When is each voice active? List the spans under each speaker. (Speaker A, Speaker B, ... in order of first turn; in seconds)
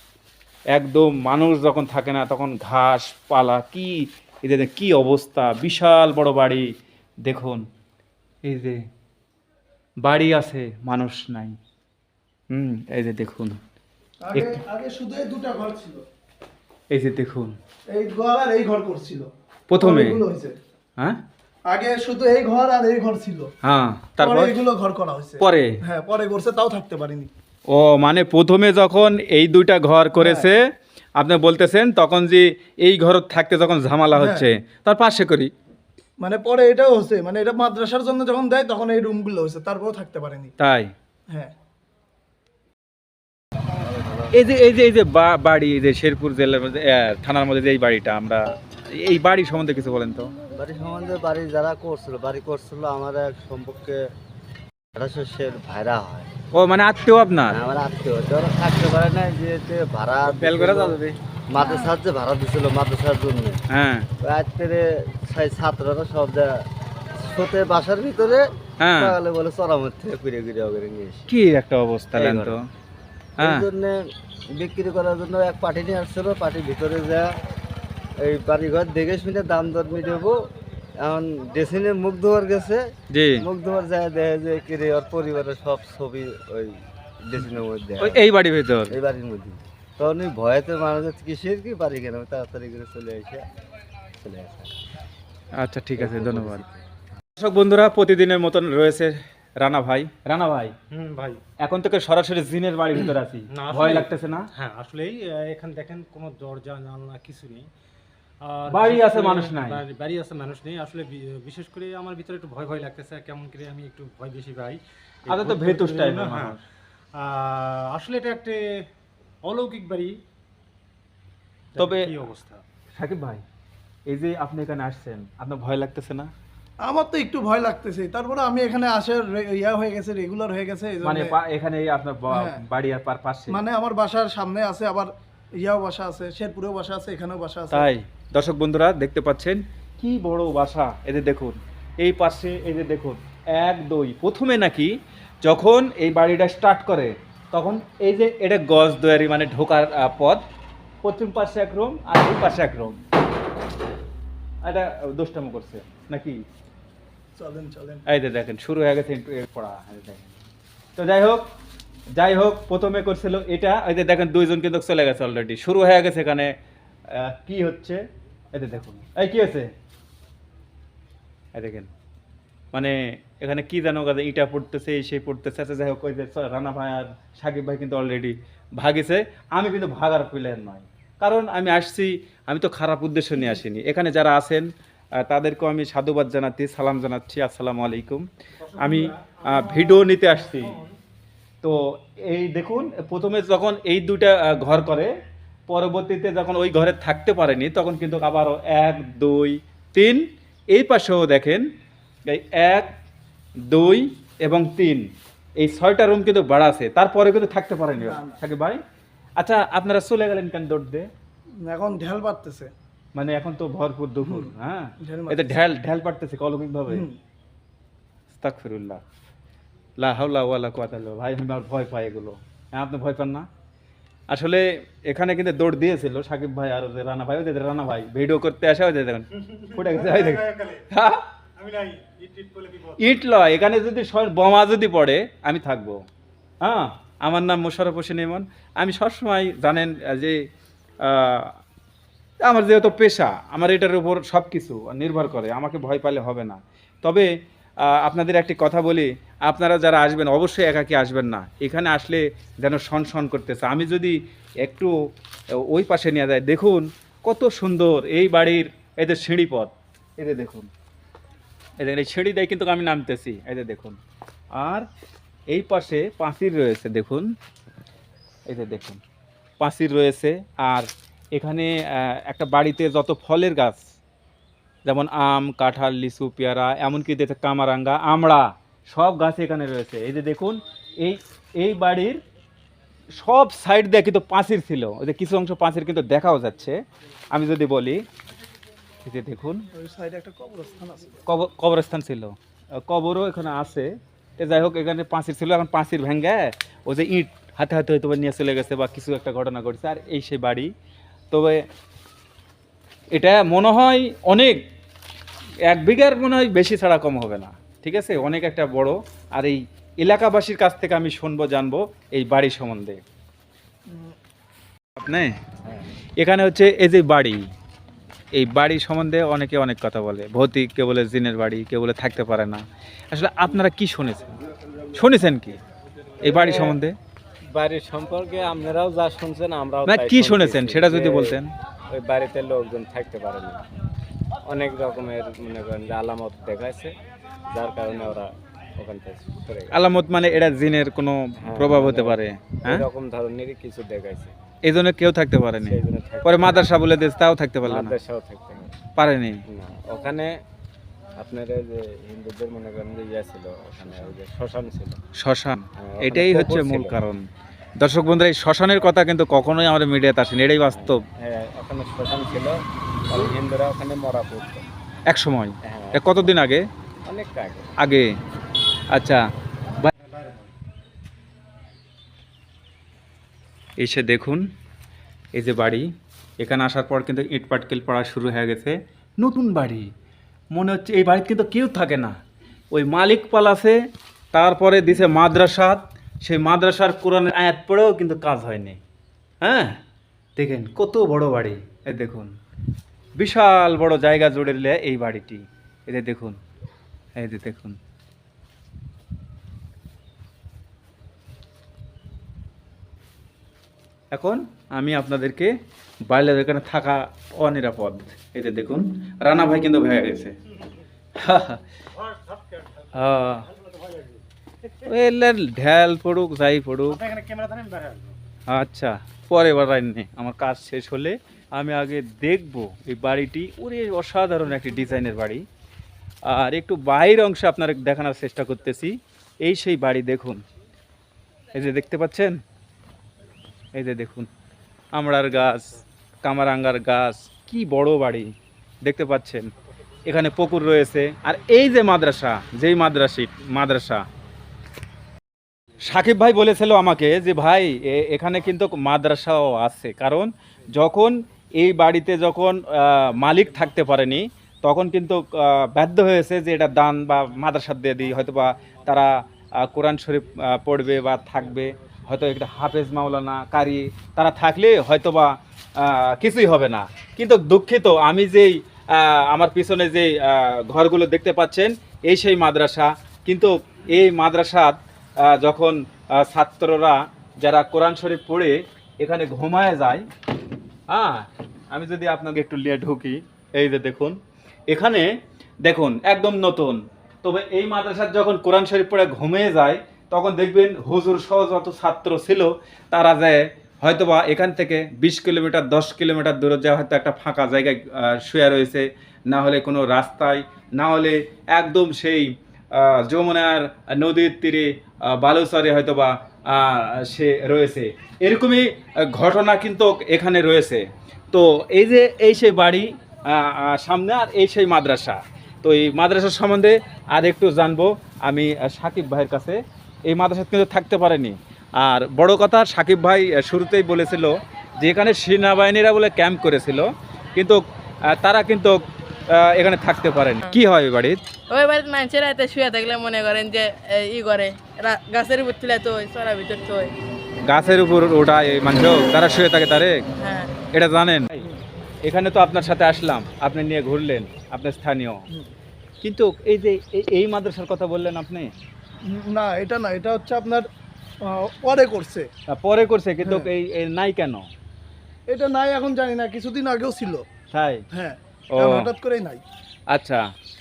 Speaker A: 0.7-6.7, 7.2-7.6, 8.4-8.8, 10.0-11.6, 12.5-13.6, 16.9-17.5, 19.7-20.2, 23.6-24.6, 25.4-25.8, 27.7-35.5, 40.6-40.9, 44.3-50.3, 56.5-57.6, 60.3-61.2, 63.7-64.1, 68.8-69.2, 71.3-72.6, 73.4-73.7, 83.1-83.5, 88.0-89.0, 95.6-96.6, 97.3-100.7, 101.6-104.5, 108.7-109.8, 115.3-116.6, 121.8-122.1, 123.0-123.4, 124.1-126.3, 131.0-133.6, 137.7-150.4, 151.0-153.0, 154.6-156.4, 158.1-160.3, 161.0-161.5, 162.2-166.5, 167.1-168.0, 168.5-169.7, 171.5-171.9, 172.7-188.3, 188.8-190.7, 191.6-195.1, 195.7-201.7, 202.3-202.9, 203.7-205.1, 205.6-208.8, 209.4-211.1, 213.2-217.1, 218.3-219.0, 220.0-223.5, 224.3-231.2, 233.0-236.0, 236.6-240.4, 241.0-241.6, 242.4-247.3, 247.8-254.9, 255.5-260.7, 261.8-264.0, 264.5-264.9, 265.5-267.3, 268.5-269.0, 269.6-273.8, 274.9-282.2, 283.2-286.8, 287.3-288.0, 289.0-289.6, 291.2-300.7, 301.3-301.6, 303.1-304.6, 305.6-313.0, 315.0-315.4, 316.2-317.5, 318.3-324.4, 324.9-325.6, 326.2-327.0, 329.9-331.5, 339.7-342.8, 344.6-347.9, 348.9-349.4, 355.2-357.2, 357.8-361.0, 365.1-366.6, 367.8-368.1, 368.9-369.2, 373.8-374.5, 375.3-379.9, 380.5-382.2, 382.7-383.8, 384.3-388.8, 389.4-389.8, 390.4-392.3, 393.2-396.4, 397.2-397.8, 404.1-405.5, 406.1-410.3, 411.2-411.6, 412.9-413.4, 414.9-417.0, 418.5-425.4, 426.2-430.4, 431.5-432.4, 433.7-434.3, 434.9-439.5, 440.1-444.0, 445.8-480.1, 480.9-484.2, 484.7-485.1, 485.6-531.2, 537.5-540.0, 540.7-541.4, 542.0-545.2, 546.0-548.5, 552.5-554.5, 557.5-557.8, 558.5-558.9, 559.9-560.2
Speaker B: 14.2-16.0, 17.9-19.3, 19.8-20.6, 21.7-23.5, 24.2-27.3, 30.2-30.5, 34.1-34.5, 36.2-40.5, 61.6-61.9, 126.8-131.3, 132.3-132.6, 133.5-137.9, 157.4-158.0, 208.0-208.3, 211.6-212.7, 215.0-215.6, 216.9-217.2, 289.7-291.2, 313.9-314.1, 549.1-550.7, 551.2-552.3, 553.2-553.5, 555.3-557.2, 557.9-559.4
Speaker C: 43.8-44.3, 50.5-54.0, 54.9-56.3, 57.5-61.0, 61.5-63.6, 64.2-71.3, 72.1-72.6, 73.4-77.3, 78.2-80.4, 81.0-82.9, 83.4-88.2, 88.9-93.4, 94.2-94.7, 96.0-96.6
Speaker D: 100.9-101.4, 103.5-107.7, 108.4-116.6, 117.2-118.8, 119.4-120.2, 121.7-122.6, 188.6-190.9, 229.4-230.9, 231.6-233.1, 369.9-370.6, 411.9-414.9, 416.9-418.2
Speaker E: 326.2-326.8, 327.5-331.4, 331.9-333.6, 334.4-336.9, 337.5-339.7, 341.4-344.3, 345.6-346.7, 347.6-348.8, 349.5-350.3, 351.1-355.0, 355.8-357.0, 360.7-364.7, 365.7-366.4, 367.1-367.7
Speaker F: 531.5-536.9, 540.2-540.5